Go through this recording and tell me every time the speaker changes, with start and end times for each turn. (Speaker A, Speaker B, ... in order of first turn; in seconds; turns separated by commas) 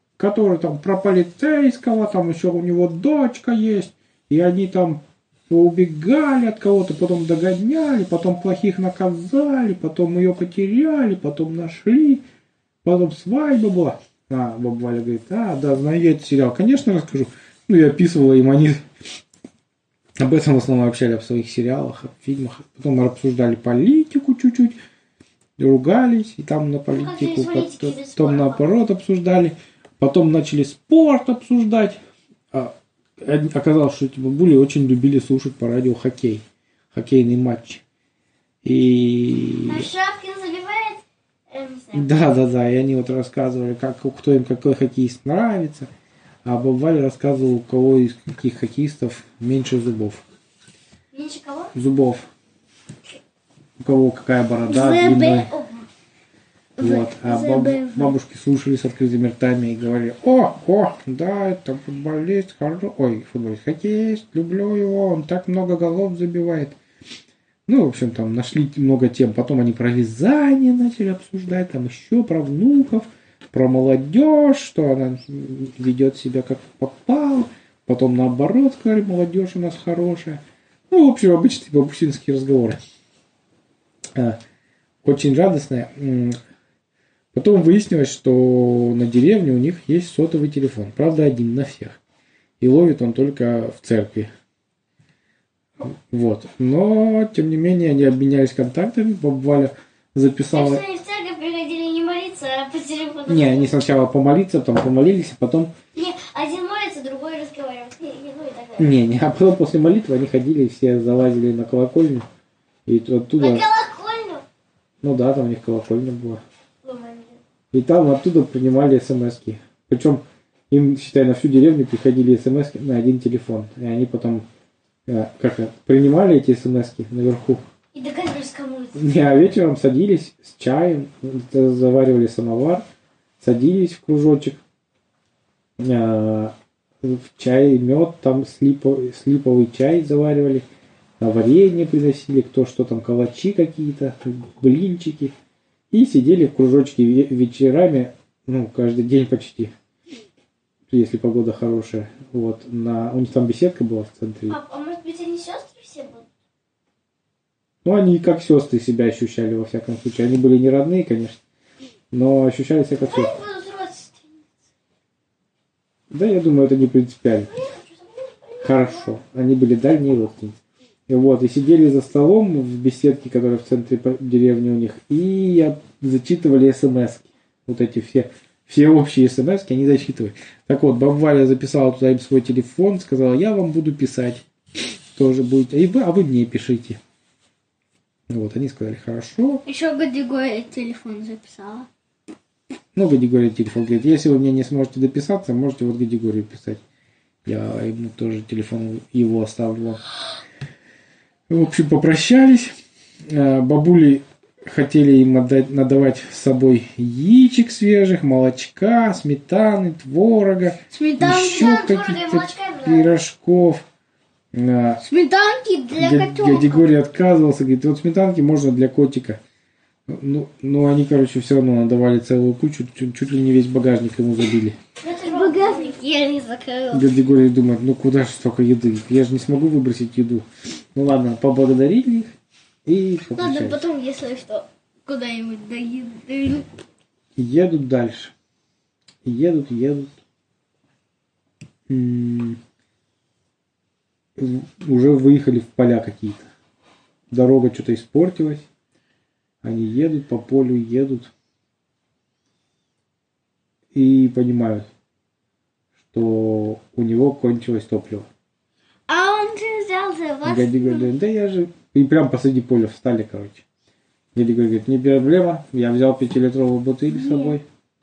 Speaker A: 0.2-12.2, Speaker A: 12.8-18.8, Speaker A: 20.2-24.8, Speaker A: 25.6-32.0, Speaker B: 26.9-28.6, Speaker A: 32.5-37.8, Speaker A: 38.6-39.9, Speaker B: 39.7-42.1, Speaker A: 41.9-45.9, Speaker A: 46.5-50.2, Speaker B: 51.1-51.7, Speaker A: 51.8-52.3, Speaker A: 53.8-55.5, Speaker C: 54.7-55.5, Speaker B: 55.2-55.9, Speaker C: 56.8-58.1, Speaker A: 56.8-66.8, Speaker A: 67.7-82.8, Speaker A: 85.0-86.4, Speaker A: 87.3-92.0, Speaker A: 92.6-94.3, Speaker A: 95.8-100.8, Speaker B: 100.5-103.8, Speaker A: 103.3-105.7, Speaker B: 105.9-108.9, Speaker A: 108.8-112.3, Speaker A: 112.9-113.7, Speaker B: 113.4-114.4, Speaker A: 115.0-116.4, Speaker B: 116.8-117.4, Speaker A: 117.7-124.4, Speaker A: 125.1-127.6, Speaker B: 127.9-129.0, Speaker A: 128.9-132.8, Speaker A: 133.4-134.6, Speaker A: 135.8-140.7, Speaker A: 141.2-145.3, Speaker A: 145.9-149.7, Speaker A: 150.9-154.6, Speaker B: 154.5-156.3, Speaker A: 157.8-161.4, Speaker A: 162.1-163.3, Speaker B: 163.0-164.5, Speaker A: 166.1-167.5, Speaker B: 167.5-169.1, Speaker A: 168.6-170.6, Speaker A: 171.1-184.4, Speaker A: 185.2-187.0, Speaker A: 188.3-189.6, Speaker C: 189.7-191.9, Speaker A: 192.9-196.8, Speaker A: 197.4-200.0, Speaker A: 201.5-202.7, Speaker A: 203.3-213.8, Speaker C: 210.9-211.9, Speaker B: 211.5-213.2, Speaker A: 214.5-215.0, Speaker C: 215.0-216.9, Speaker A: 216.0-219.4, Speaker A: 220.1-224.8, Speaker B: 225.0-226.0, Speaker C: 225.3-227.1, Speaker A: 226.9-232.3, Speaker A: 232.9-233.8, Speaker C: 233.3-236.7, Speaker A: 237.4-238.3, Speaker A: 239.2-240.1, Speaker A: 241.9-242.6, Speaker A: 244.4-246.5, Speaker A: 247.3-248.7, Speaker A: 249.6-251.3, Speaker A: 253.9-254.9, Speaker A: 256.1-258.3, Speaker C: 259.1-261.1, Speaker A: 260.4-263.6, Speaker A: 264.4-267.6, Speaker C: 267.1-267.6